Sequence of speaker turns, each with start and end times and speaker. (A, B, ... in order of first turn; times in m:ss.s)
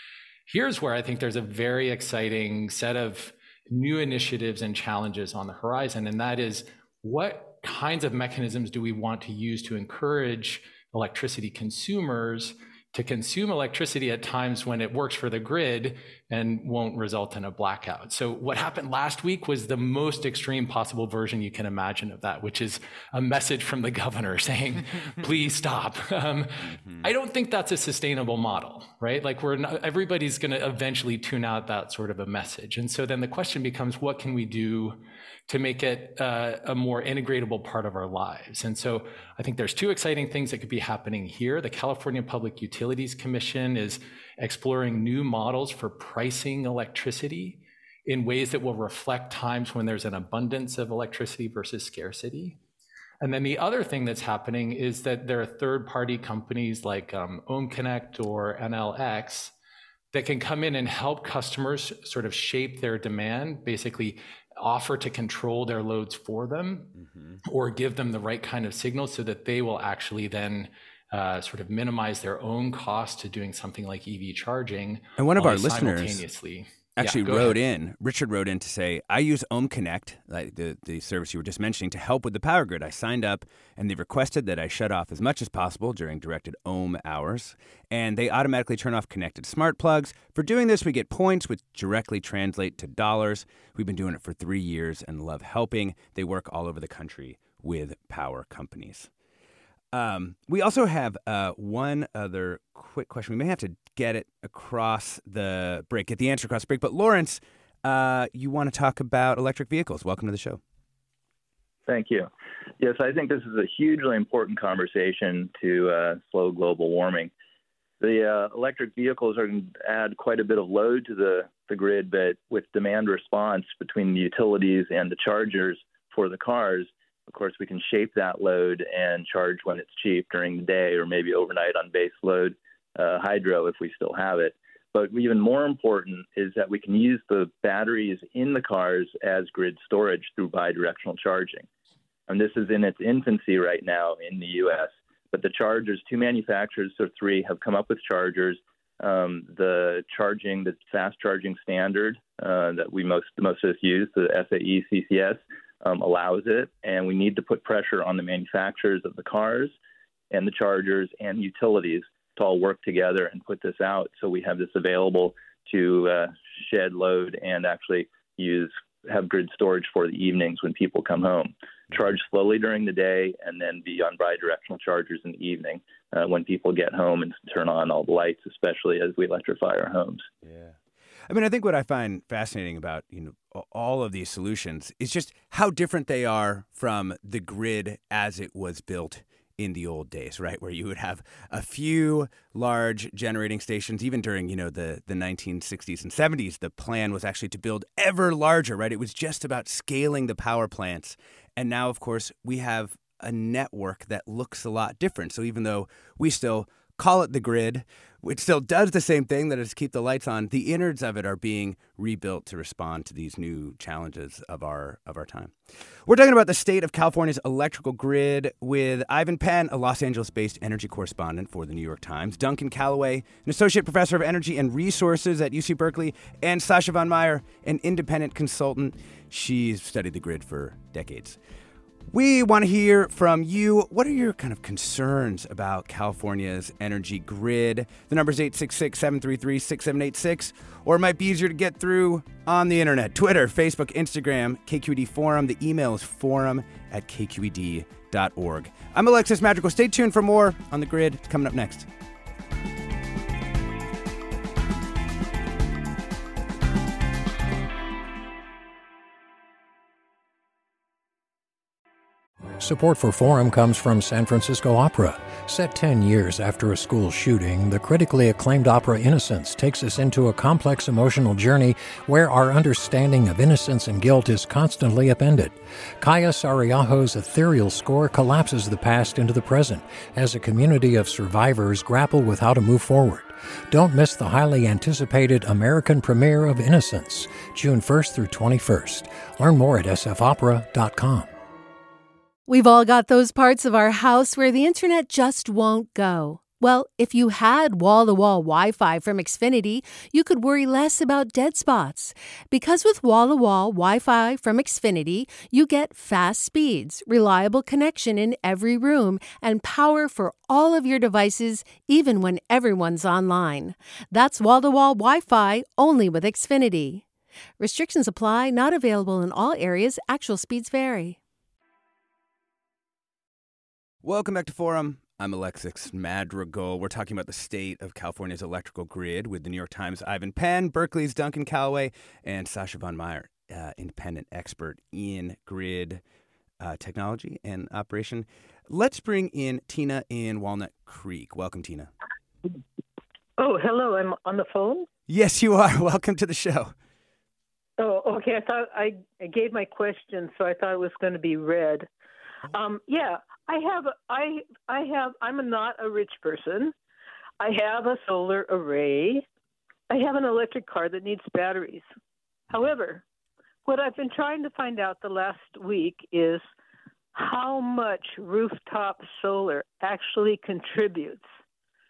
0:00.5-0:52.6 A
0:26.6-0:27.1 B
0:53.2-0:59.5 A
1:00.1-1:06.9 A
1:07.0-1:07.4 B
1:07.4-1:17.6 A
1:15.2-1:16.2 B
1:17.0-1:39.1 B
1:39.9-1:50.6 B
1:51.9-1:57.3 C
1:58.0-2:21.7 C
2:22.3-2:39.7 C
2:40.3-3:00.3 C
3:00.4-3:00.8 B
3:01.3-3:51.4 B
3:52.1-4:11.9 B
4:22.6-4:51.3 D
4:52.5-5:17.0 E
5:17.6-5:21.2 E
5:24.0-5:36.0 B
5:36.6-5:41.9 B
5:43.4-5:44.9 F
5:45.1-5:46.7 B
5:47.8-5:51.9 F
5:52.5-5:56.7 F
5:57.4-5:59.2 F
5:59.9-6:01.9 F
6:02.5-6:03.0 F
6:03.6-6:06.4 F
6:07.1-6:11.3 F